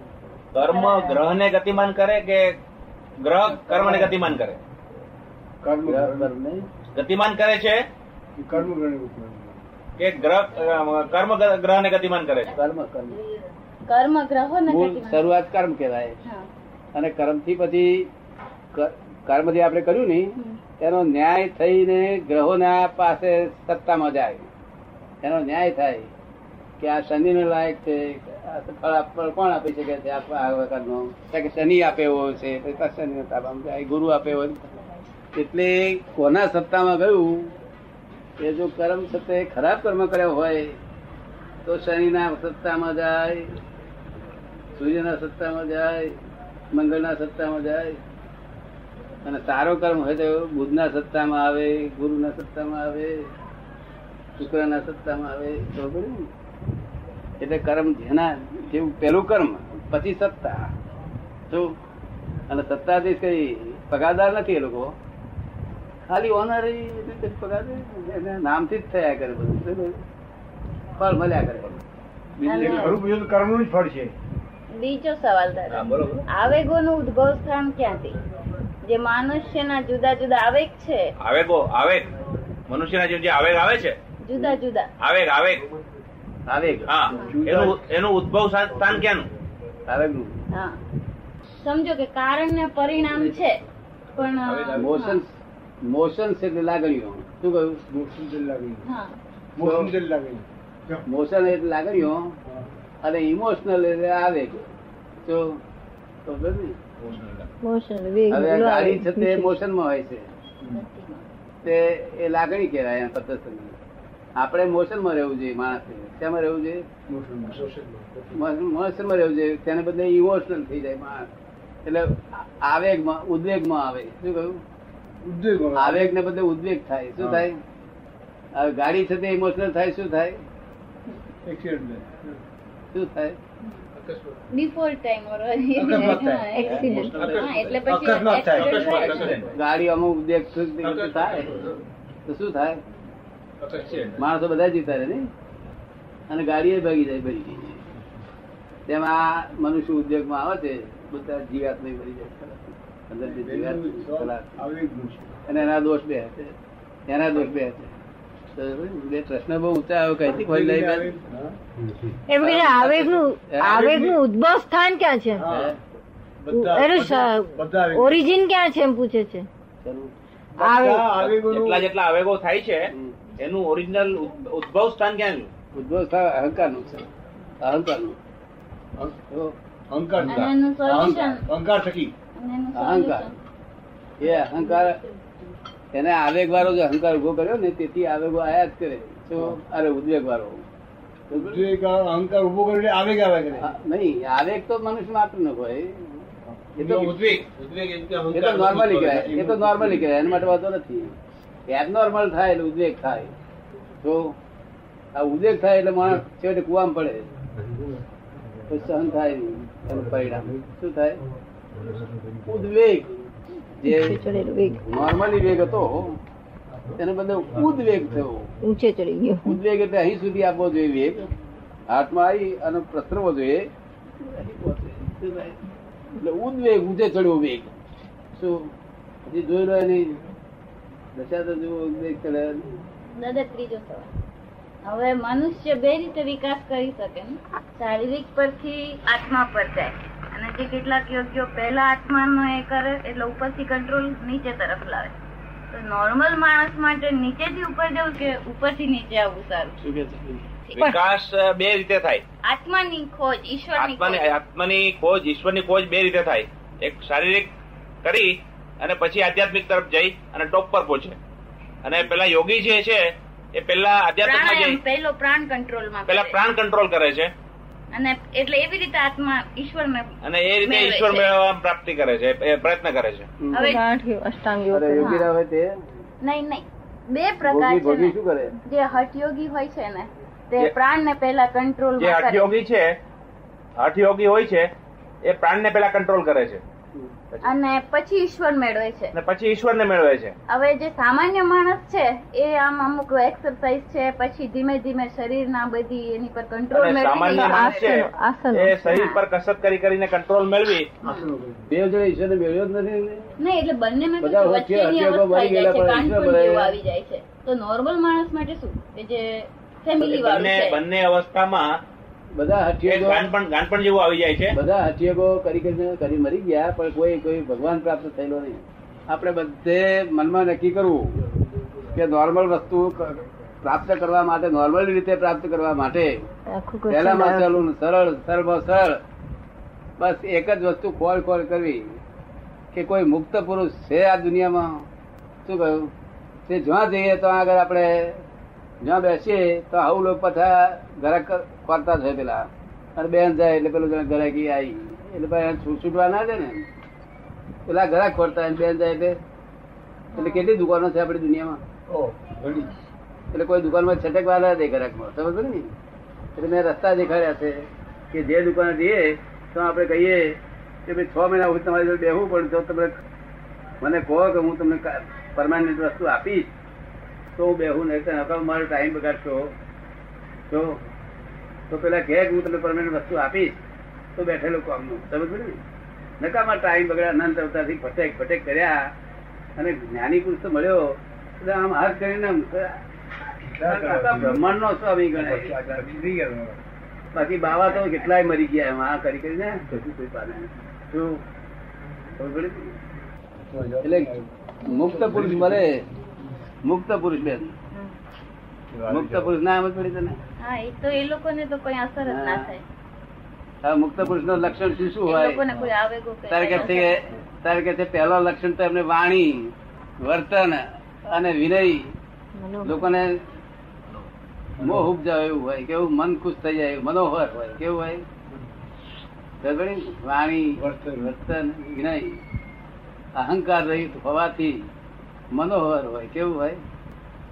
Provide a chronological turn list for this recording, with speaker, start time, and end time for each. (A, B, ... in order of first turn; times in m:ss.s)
0:00.5-0:02.6 A
0:00.7-0:01.2 B
0:03.2-0:04.6 A
0:03.6-0:04.1 C
0:05.6-0:06.3 D
0:05.8-0:06.7 C
0:06.9-0:07.8 A
0:08.4-0:09.7 D
0:10.0-0:12.5 A
0:12.5-0:13.2 C
0:13.8-0:15.3 B
0:14.7-0:16.2 C
0:16.2-0:16.5 B
0:16.9-0:18.1 C
0:18.7-0:24.5 C
0:25.2-0:26.1 C
0:26.8-0:34.7 C
0:35.3-0:37.5 C
0:38.4-0:40.8 C
0:41.6-0:43.5 C
0:44.7-0:46.2 C
0:46.7-0:48.0 C
0:49.2-0:53.2 C
0:54.4-0:56.3 C
0:57.4-1:00.6 C
1:01.5-1:01.7 C
1:02.5-1:04.9 C
1:06.0-1:10.0 C
1:11.0-1:11.8 C
1:12.4-1:14.1 D
1:12.4-1:13.0 B
1:12.5-1:12.8 C
1:14.7-1:18.1 B
1:15.7-1:16.2 A
1:18.8-1:21.1 B
1:21.2-1:22.1 A
1:22.7-1:24.0 A
1:24.2-1:24.9 B
1:25.0-1:25.6 A
1:26.5-1:27.2 C
1:26.8-1:29.3 A
1:27.1-1:27.8 D
1:29.9-1:30.4 C
1:30.5-1:30.8 B
1:31.6-1:33.6 B
1:34.1-1:35.2 B
1:34.4-1:34.9 A
1:34.8-1:37.8 C
1:37.9-1:38.9 D
1:38.8-1:39.2 B
1:39.6-1:41.0 D
1:39.6-1:39.9 C
1:41.0-1:42.4 C
1:43.0-1:44.6 C
1:45.2-1:45.6 C
1:46.2-1:46.8 C
1:47.0-1:47.5 D
1:47.6-1:49.6 E
1:48.3-1:50.3 C
1:50.7-1:51.3 B
1:51.6-1:53.8 C
1:54.4-1:56.8 C
1:57.1-1:58.4 D
1:58.3-2:01.3 C
2:01.8-2:04.6 C
2:05.2-2:06.1 D
2:05.8-2:07.6 C
2:07.2-2:07.5 D
2:08.5-2:10.4 C
2:11.4-2:12.4 D
2:12.9-2:13.4 C
2:13.6-2:13.9 B
2:14.0-2:14.4 A
2:14.5-2:19.5 B
2:15.8-2:19.5 D
2:16.6-2:17.2 E
2:16.6-2:17.8 A
2:18.4-2:19.6 A
2:19.5-2:22.8 C
2:20.8-2:21.5 A
2:21.4-2:21.7 D
2:23.6-2:24.2 A
2:24.2-2:25.3 C
2:26.3-2:27.8 C
2:28.9-2:34.6 C
2:33.2-2:35.3 D
2:35.5-2:36.5 C
2:37.1-2:37.9 C
2:38.6-2:41.1 C
2:40.3-2:41.6 D
2:42.1-2:45.5 E
2:42.4-2:43.9 C
2:43.7-2:44.2 D
2:45.3-2:45.7 D
2:45.4-2:45.8 C
2:46.4-2:48.4 D
2:46.5-2:49.5 E
2:49.8-2:50.1 C
2:50.6-2:51.1 E
2:50.6-2:51.9 D
2:51.2-2:55.5 A
2:52.9-2:53.2 C
2:55.7-2:57.1 C
2:57.6-2:58.2 C
2:59.3-2:59.6 C
2:59.9-3:02.1 D
3:00.3-3:01.5 B
3:02.4-3:03.4 B
3:02.8-3:03.3 C
3:04.2-3:05.0 C
3:05.9-3:10.6 C
3:11.3-3:11.6 C
3:11.3-3:13.7 D
3:13.6-3:16.2 C
3:16.4-3:17.2 D
3:16.8-3:17.4 C
3:17.0-3:18.9 A
3:18.3-3:21.1 C
3:18.3-3:20.3 D
3:21.7-3:23.3 C
3:24.0-3:24.4 C
3:25.1-3:27.3 C
3:28.7-3:31.2 C
3:32.4-3:33.2 C
3:33.8-3:34.2 C
3:33.9-3:34.9 E
3:34.8-3:36.2 C
3:37.0-3:38.5 C
3:38.6-3:39.6 E
3:39.4-3:41.3 C
3:41.9-3:45.6 C
3:46.2-3:47.7 C
3:48.3-3:48.7 C
3:49.2-3:50.2 C
3:51.1-3:52.8 C
3:53.2-3:54.1 B
3:54.8-4:05.2 B
4:05.7-4:09.8 B
4:09.8-4:10.5 C
4:10.7-4:10.9 B
4:10.7-4:12.2 A
4:12.4-4:14.3 B
4:13.8-4:17.5 A
4:18.0-4:21.2 A
4:21.8-4:24.8 A
4:24.2-4:26.4 B
4:26.1-4:27.3 A
4:27.9-4:31.3 B
4:30.2-4:33.3 A
4:33.4-4:33.7 C
4:33.5-4:33.8 B
4:33.6-4:35.2 E
4:34.7-4:35.7 C
4:35.0-4:35.3 B
4:36.2-4:42.5 B
4:37.4-4:38.5 C
4:42.0-4:42.9 A
4:43.8-4:44.7 A
4:45.2-4:46.6 A
4:47.4-4:49.1 B
4:49.1-4:50.3 A
4:50.5-4:58.0 B
4:56.7-5:00.9 A
4:57.2-4:58.8 E
4:58.9-4:59.2 B
5:01.0-5:01.7 D
5:01.7-5:03.3 C
5:03.4-5:10.8 B
5:04.2-5:06.8 C
5:10.0-5:11.7 A
5:12.3-5:13.3 C
5:12.8-5:14.6 A
5:14.5-5:21.2 C
5:21.8-5:26.1 C
5:26.5-5:27.6 E
5:26.9-5:29.0 C
5:30.0-5:32.0 C
5:32.7-5:34.8 C
5:35.4-5:35.9 C
5:36.5-5:38.2 C
5:38.8-5:46.6 C
5:47.7-5:49.2 C
5:50.1-5:50.5 B
5:50.1-5:51.6 C
5:51.9-5:52.7 D
5:53.3-5:55.7 C
5:56.4-6:02.9 C
6:03.8-6:06.5 C
6:07.3-6:09.5 C
6:10.5-6:10.8 C
6:11.7-6:13.6 C
6:14.2-6:15.6 C
6:16.2-6:18.8 C
6:19.6-6:20.8 C
6:21.4-6:22.8 C
6:23.4-6:24.6 D
6:23.6-6:26.0 C
6:25.1-6:26.6 D
6:27.1-6:31.2 C
6:32.2-6:32.8 C
6:33.5-6:35.7 D
6:33.8-6:34.1 C
6:34.6-6:35.8 C
6:34.6-6:34.9 B
6:36.6-6:37.5 C
6:38.7-6:39.3 D
6:38.9-6:40.2 C
6:40.4-6:42.6 B
6:42.0-6:42.5 C
6:43.6-6:45.4 C
6:45.0-6:47.1 B
6:46.3-6:51.9 C
6:52.4-6:52.9 E
6:52.6-6:53.2 C
6:54.6-6:54.8 D
6:54.6-6:58.0 C
6:59.4-7:02.2 C
7:00.6-7:01.1 D
7:03.2-7:04.7 C
7:05.3-7:06.6 C